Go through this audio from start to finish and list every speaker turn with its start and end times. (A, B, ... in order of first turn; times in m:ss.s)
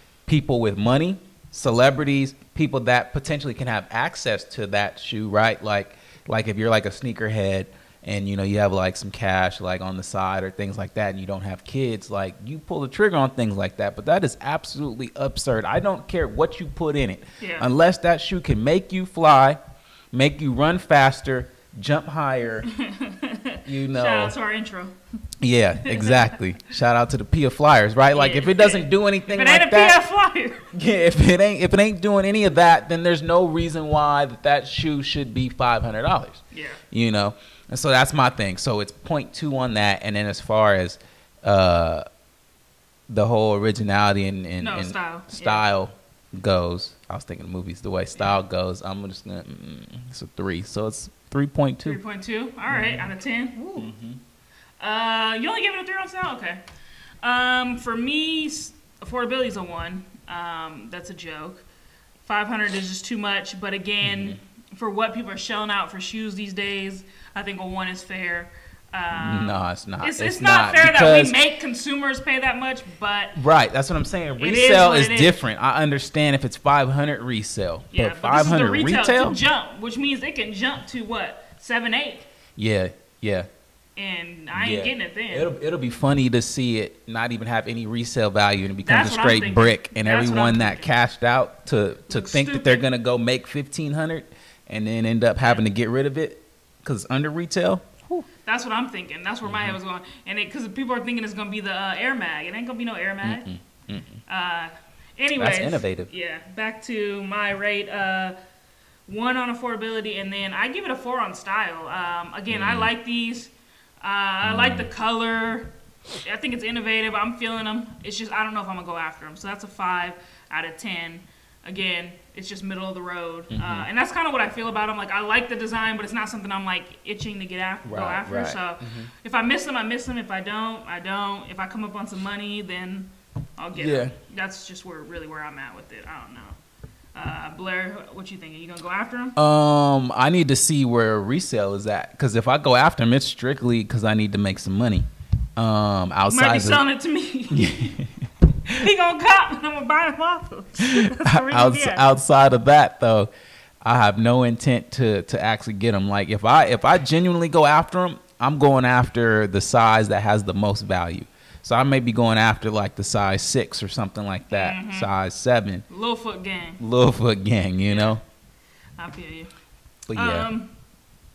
0:00.3-0:19.6 A
0:17.4-0:17.7 B
0:20.1-0:22.7 A
0:22.7-0:25.0 B
0:23.6-0:24.3 A
0:25.4-0:30.0 A
0:25.8-0:26.3 B
0:28.1-0:30.7 B
0:30.7-0:42.0 A
0:36.5-0:36.8 B
0:43.1-0:52.0 A
0:44.6-0:45.6 B
0:51.8-0:53.9 B
0:52.7-0:53.1 A
0:53.8-0:54.2 A
0:54.8-0:56.6 B
0:57.2-1:01.6 B
1:02.2-1:13.4 B
1:04.0-1:04.4 A
1:09.1-1:11.4 A
1:13.4-1:19.4 A
1:14.4-1:15.4 B
1:17.9-1:22.3 B
1:22.6-1:23.5 A
1:24.0-1:25.5 B
1:24.5-1:38.3 A
1:28.8-1:30.9 B
1:32.1-1:32.8 B
1:38.4-1:43.5 B
1:39.4-1:39.8 A
1:43.2-1:44.2 A
1:44.3-1:48.4 B
1:45.4-1:46.1 A
1:49.1-1:55.7 B
1:52.5-1:52.9 A
1:54.4-1:54.9 A
1:56.2-2:16.6 B
2:03.5-2:03.9 A
2:07.8-2:09.1 A
2:13.8-2:14.2 A
2:17.1-2:19.4 B
2:19.4-2:26.8 A
2:26.3-2:27.9 B
2:27.5-2:28.3 A
2:28.6-2:32.0 B
2:30.8-2:33.3 A
2:33.8-2:45.8 A
2:44.5-2:45.1 B
2:45.9-2:46.8 B
2:46.8-2:48.2 A
2:47.9-2:48.1 B
2:49.0-2:49.5 B
2:50.1-2:50.5 A
2:50.1-2:50.7 B